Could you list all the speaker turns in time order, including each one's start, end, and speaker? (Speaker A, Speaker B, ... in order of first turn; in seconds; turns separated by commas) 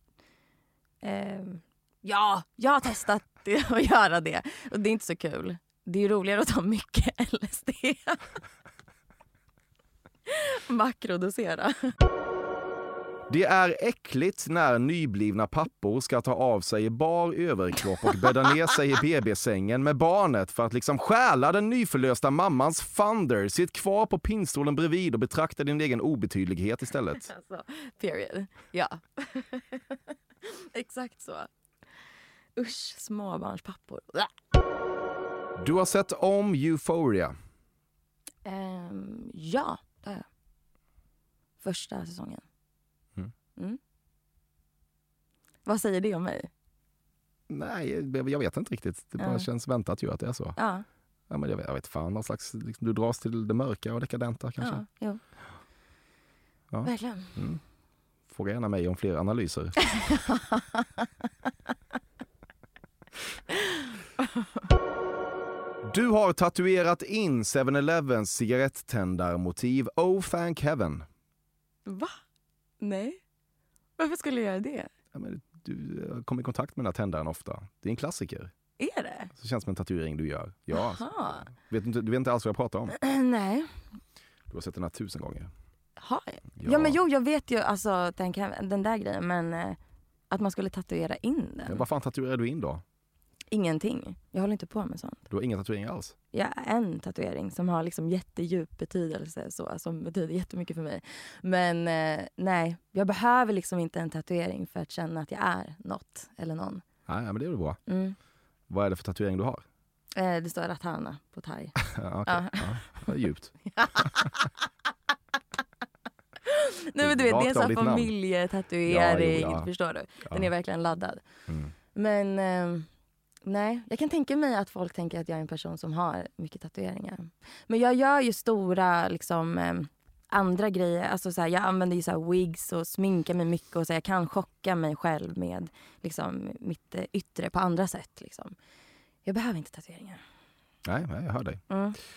Speaker A: 1.0-8.3, Speaker A: 10.3-11.9, Speaker B: 13.3-27.3, Speaker A: 27.2-31.5, Speaker A: 32.5-34.3, Speaker B: 35.6-37.3, Speaker A: 38.4-40.2, Speaker A: 41.6-42.4, Speaker A: 45.6-46.5, Speaker B: 47.5-50.6, Speaker A: 49.2-49.5, Speaker A: 50.6-50.8, Speaker B: 51.3-54.8, Speaker A: 54.6-55.2, Speaker B: 56.7-57.6, Speaker A: 56.8-57.3, Speaker B: 58.3-60.0, Speaker B: 65.8-71.0, Speaker A: 71.8-72.2, Speaker A: 72.8-73.2, Speaker A: 74.0-74.9, Speaker B: 75.1-78.5, Speaker A: 78.8-79.3, Speaker B: 79.3-83.0, Speaker A: 80.7-81.4, Speaker A: 83.0-83.7, Speaker B: 84.5-85.5, Speaker A: 86.0-89.8, Speaker B: 86.6-87.0, Speaker A: 90.3-91.8, Speaker B: 91.7-92.8, Speaker A: 93.5-95.2, Speaker B: 95.3-96.1, Speaker A: 96.3-106.8, Speaker B: 107.1-107.8, Speaker A: 107.9-108.2, Speaker B: 108.7-109.6, Speaker A: 110.2-113.1, Speaker B: 111.8-114.1, Speaker A: 113.7-114.5, Speaker A: 116.4-121.2, Speaker B: 117.0-118.1, Speaker B: 118.9-119.7, Speaker B: 121.5-121.7, Speaker A: 121.9-122.9, Speaker A: 123.4-138.5, Speaker A: 139.2-140.2, Speaker B: 140.8-141.6, Speaker A: 141.7-142.0